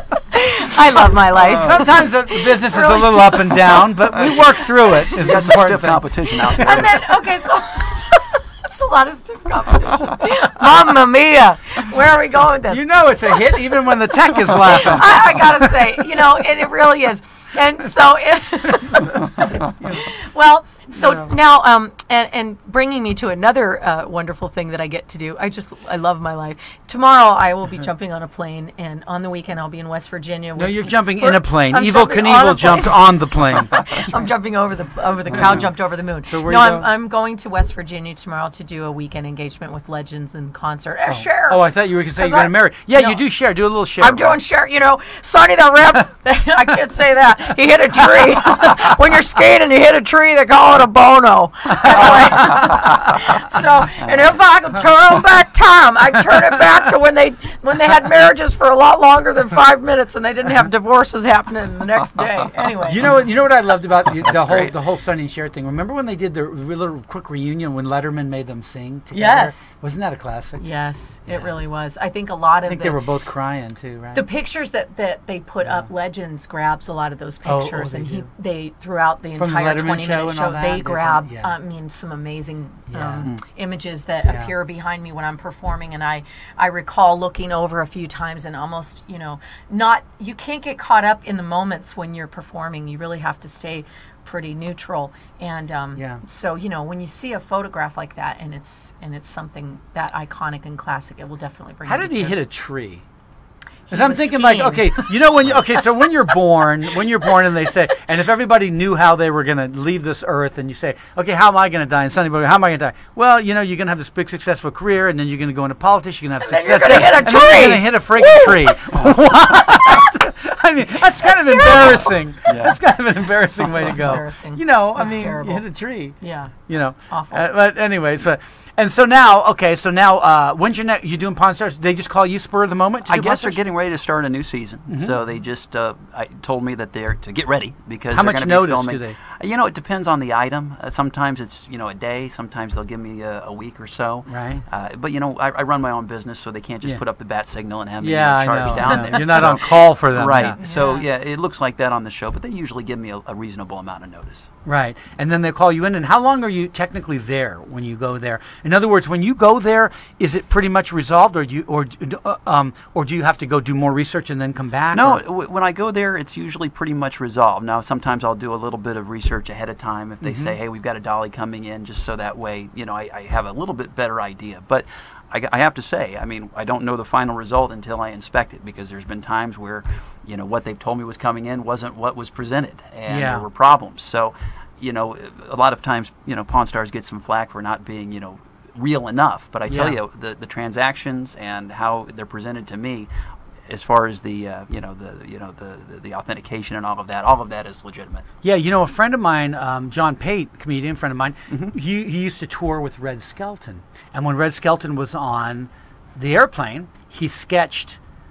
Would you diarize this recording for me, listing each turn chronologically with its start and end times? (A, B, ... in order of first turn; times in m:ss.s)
0:00.3-0:03.8 A
0:01.4-0:06.8 B
0:01.5-0:02.1 C
0:04.0-0:04.6 C
0:05.1-0:07.2 C
0:06.6-0:14.0 A
0:12.7-0:15.9 B
0:14.5-0:43.2 A
0:19.8-0:20.0 B
0:20.9-0:21.3 B
0:30.6-0:33.8 B
0:36.3-0:36.9 B
0:41.1-0:44.4 B
0:44.0-1:03.0 A
0:52.4-0:53.2 C
0:54.0-0:54.3 C
1:02.9-1:10.6 B
1:04.1-1:04.8 C
1:09.1-1:09.5 A
1:10.6-1:13.0 A
1:11.3-1:11.5 B
1:12.7-1:14.2 B
1:14.1-1:42.4 A
1:15.6-1:15.9 B
1:17.4-1:18.3 B
1:19.4-1:21.5 B
1:22.9-1:23.3 B
1:24.3-1:24.5 B
1:36.0-1:36.2 B
1:41.9-1:43.0 B
1:43.9-1:45.3 A
1:43.9-2:06.2 B
1:56.4-1:58.8 A
2:01.2-2:02.1 A
2:02.5-2:02.8 C
2:03.6-2:03.9 C
2:03.8-2:05.7 A
2:06.2-2:07.5 A
2:06.7-2:13.6 B
2:13.0-2:34.5 C
2:14.9-2:15.2 B
2:18.1-2:19.2 B
2:24.3-2:24.6 B
2:28.0-2:30.6 B
2:30.7-2:31.0 A
2:34.7-2:45.2 B
2:44.9-3:13.1 C
2:50.2-2:50.6 B
3:03.1-3:03.5 B
3:09.7-3:10.0 B
3:13.7-3:18.3 C
3:18.4-3:28.0 B
3:21.5-3:21.7 C